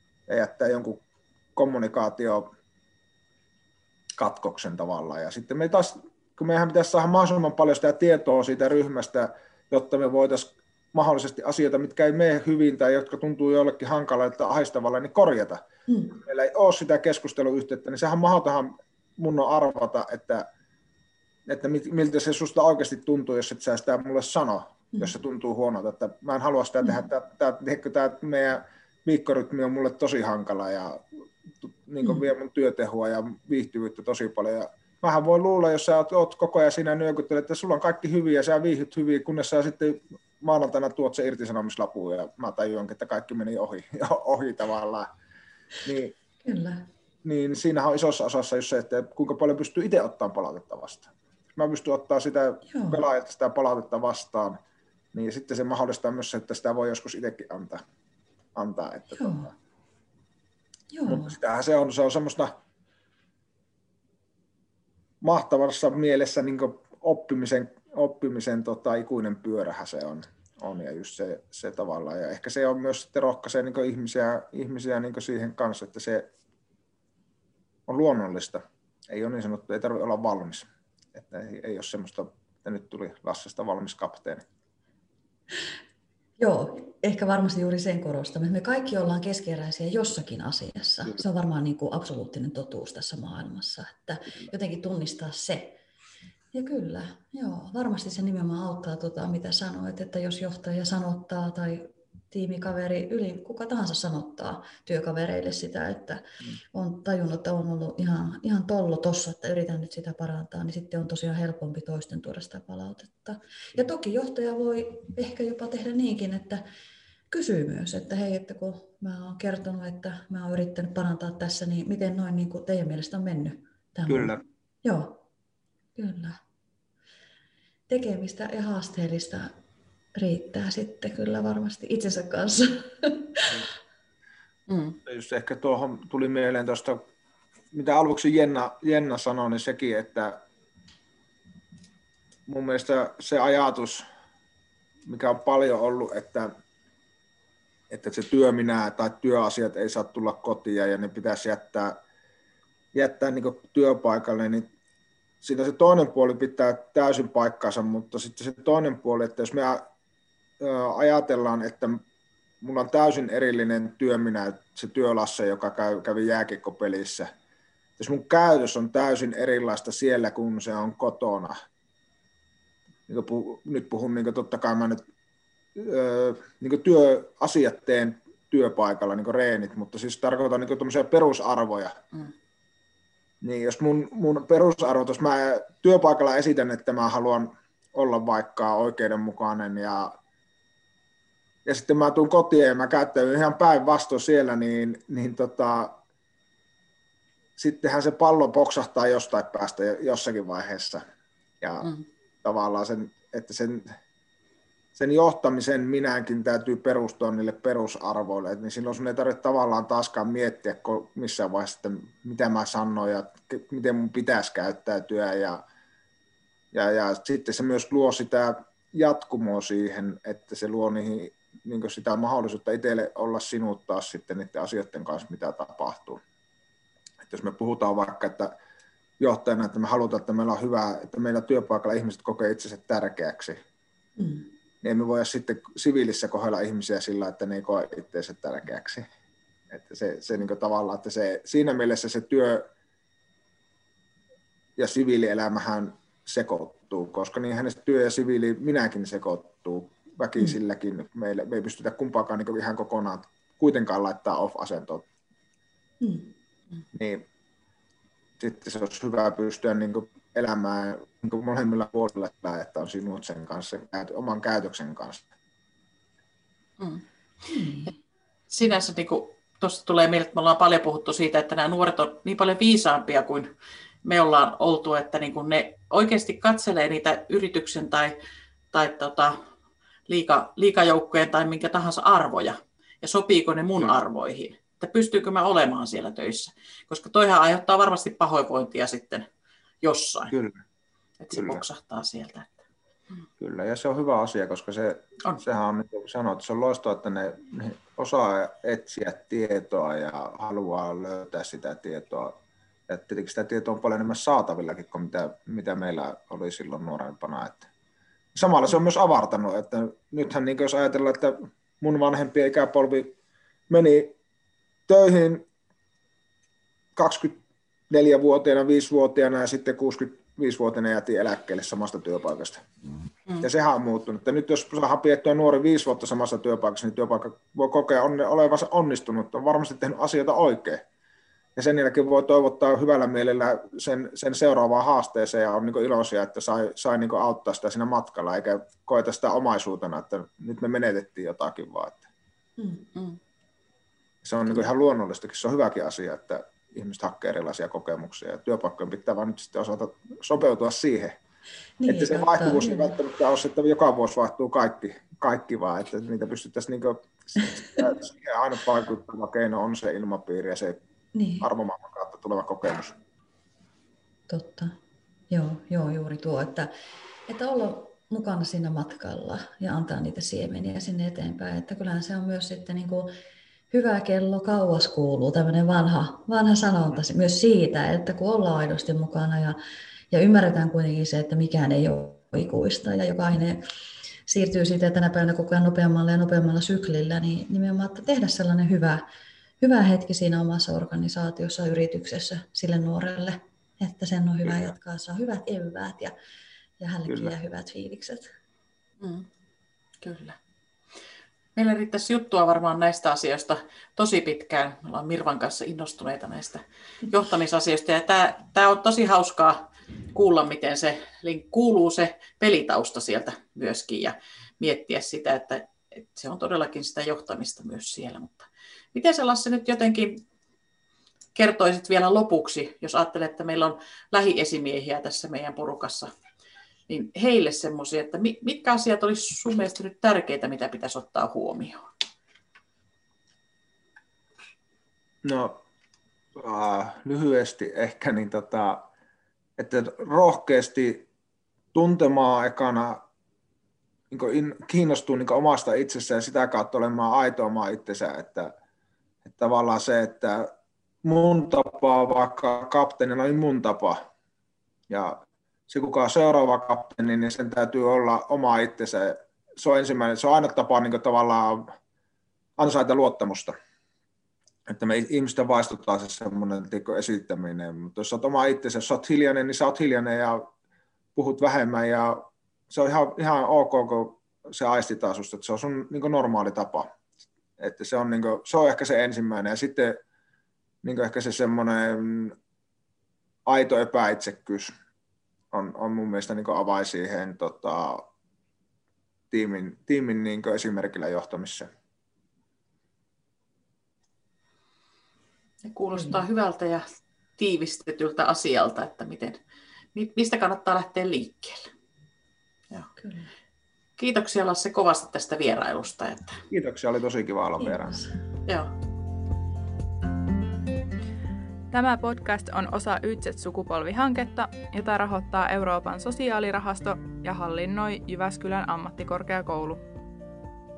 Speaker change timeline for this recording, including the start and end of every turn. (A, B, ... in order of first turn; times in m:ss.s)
0:00.3-0:01.0 A
0:01.6-0:02.5 A
0:04.2-0:20.4 A
0:15.9-0:16.1 B
0:21.5-0:31.0 A
0:31.6-0:45.1 A
0:45.8-0:46.1 A
0:46.4-0:46.8 B
0:47.2-0:54.6 A
0:52.7-0:53.0 B
0:55.1-0:57.8 A
0:58.5-0:59.5 A
0:59.1-0:59.5 B
1:00.9-1:01.3 B
1:01.1-1:02.5 A
1:05.2-1:16.3 A
1:17.9-1:24.4 A
1:26.4-1:35.8 B
1:36.5-1:56.6 B
1:57.3-2:05.2 B
2:04.1-2:04.4 A
2:06.0-2:06.4 B
2:07.9-2:09.5 B
2:10.2-2:13.5 B
2:14.7-2:15.0 C
2:15.0-2:17.0 A
2:17.7-2:20.4 A
2:22.5-2:24.0 A
2:25.0-2:26.5 A
2:27.9-2:32.0 A
2:32.9-2:34.7 A
2:35.4-2:39.8 A
2:40.6-2:42.0 A
2:42.6-2:47.3 A
2:48.0-2:51.5 A
2:53.1-2:55.0 A
2:55.8-3:02.0 A
3:03.4-3:10.1 A
3:11.6-3:16.0 A
3:17.6-3:21.0 A
3:21.6-3:21.9 A
3:22.4-3:23.9 A
3:24.9-3:35.6 A
3:36.7-3:46.2 A
3:47.2-3:48.5 A
3:49.2-3:53.6 A
3:54.2-3:54.5 B
3:54.8-3:59.0 A
3:59.7-4:02.6 A
4:04.8-4:15.0 A
4:16.0-4:16.3 B
4:16.9-4:17.2 A
4:18.4-4:25.2 A
4:26.8-4:27.0 C
4:27.4-4:27.9 B
4:28.5-4:33.5 C
4:34.0-4:38.2 C
4:38.7-4:39.4 C
4:40.1-4:49.3 C
4:49.8-4:50.3 C
4:50.3-4:50.6 A
4:51.2-4:52.6 C
4:51.3-4:51.6 A
4:53.4-5:02.4 A
5:02.9-5:07.7 A
5:08.3-5:13.1 A
5:13.7-5:14.1 A
5:14.9-5:15.4 A
5:17.0-5:17.4 A
5:17.9-5:22.6 A
5:23.4-5:30.8 A
5:31.6-5:42.0 A
5:42.6-5:42.8 B
5:44.2-5:51.2 A
5:51.8-5:53.0 B
5:51.9-6:00.8 A
6:01.1-6:01.5 B
6:01.4-6:03.0 A
6:04.3-6:04.8 B
6:05.3-6:06.7 B
6:07.3-6:13.1 B
6:13.7-6:19.6 B
6:20.1-6:23.6 B
6:24.3-6:29.0 B
6:29.6-6:36.1 B
6:36.8-6:38.3 B
6:37.0-6:37.3 A
6:39.0-6:39.3 C
6:40.0-6:40.4 C
6:41.6-7:00.2 C
7:01.3-7:06.1 C
7:06.9-7:11.8 C
7:15.2-7:15.6 A
7:16.3-7:18.9 A
7:19.6-7:21.0 A
7:21.7-7:23.0 A
7:24.1-7:28.5 A
7:29.2-7:30.5 A
7:31.0-7:34.0 A
7:34.9-7:41.7 A
7:42.6-7:43.5 A
7:44.7-7:50.4 A
7:51.2-7:56.9 A
7:57.6-8:00.0 A
8:00.8-8:02.3 A
8:03.5-8:04.7 A
8:05.5-8:08.0 A
8:09.3-8:11.7 A
8:15.7-8:19.4 C
8:15.9-8:16.2 B
8:19.9-8:21.7 C
8:23.0-8:23.3 B
8:24.0-8:26.4 C
8:26.5-8:28.0 A
8:27.6-8:28.1 B
8:28.5-8:28.7 C
8:31.7-8:39.8 D